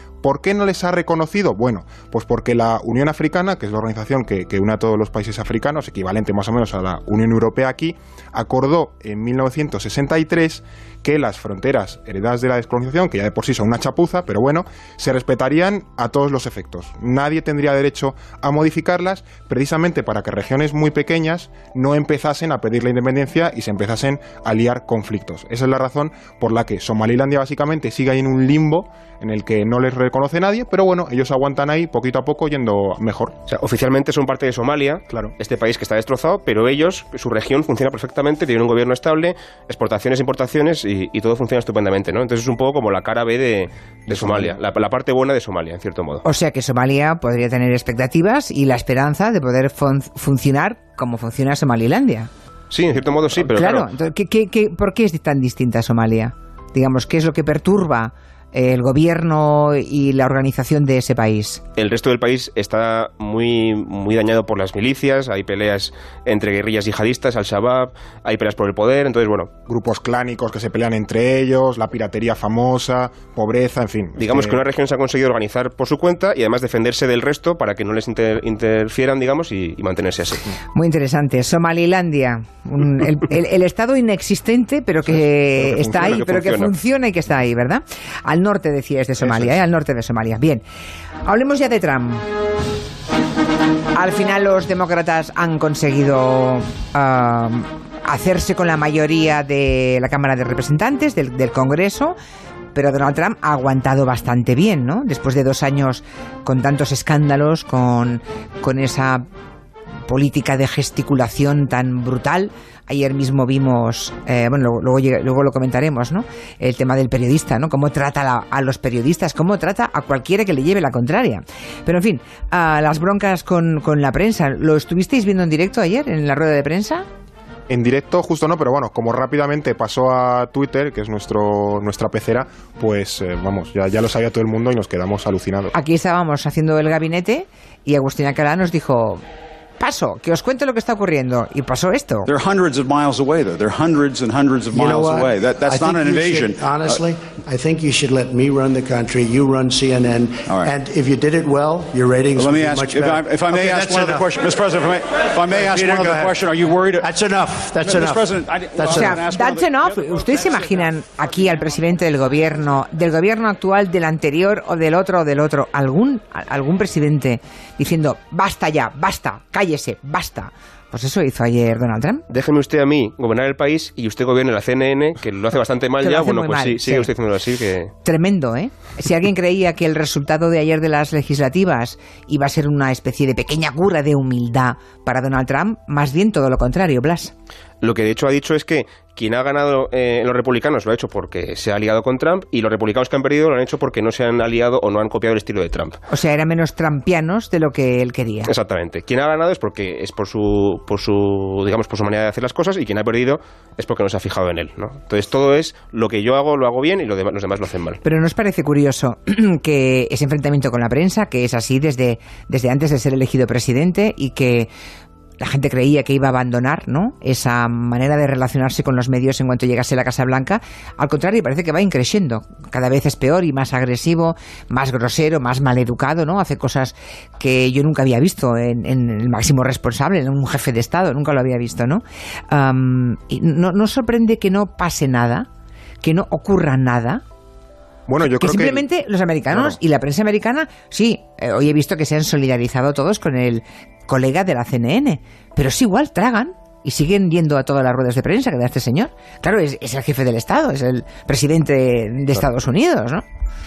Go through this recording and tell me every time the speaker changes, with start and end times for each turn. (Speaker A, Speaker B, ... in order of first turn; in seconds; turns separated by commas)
Speaker A: 0.2-33.4, Speaker B: 33.5-46.2, Speaker A: 44.1-44.5, Speaker C: 46.2-52.3, Speaker B: 52.7-53.9, Speaker C: 53.5-61.6, Speaker B: 61.8-69.5, Speaker A: 69.7-74.6, Speaker B: 74.2-80.5, Speaker C: 80.8-90.6, Speaker B: 85.6-86.7, Speaker C: 91.2-92.3, Speaker C: 93.9-102.2, Speaker C: 102.8-109.2, Speaker C: 110.1-127.1, Speaker A: 127.7-135.7, Speaker C: 135.7-139.2, Speaker C: 139.8-142.3, Speaker D: 142.3-147.0, Speaker E: 144.7-154.3, Speaker D: 150.5-150.7, Speaker D: 152.3-157.1, Speaker E: 155.5-156.4, Speaker E: 157.0-159.2, Speaker D: 157.8-160.1, Speaker C: 158.9-172.2, Speaker B: 172.3-177.9, Speaker C: 176.0-177.1, Speaker C: 178.1-187.3, Speaker B: 187.8-196.0, Speaker C: 196.1-198.5, Speaker B: 198.4-208.0, Speaker C: 208.0-214.7, Speaker C: 215.4-235.5, Speaker C: 236.0-237.2, Speaker A: 238.1-238.8, Speaker C: 238.2-253.2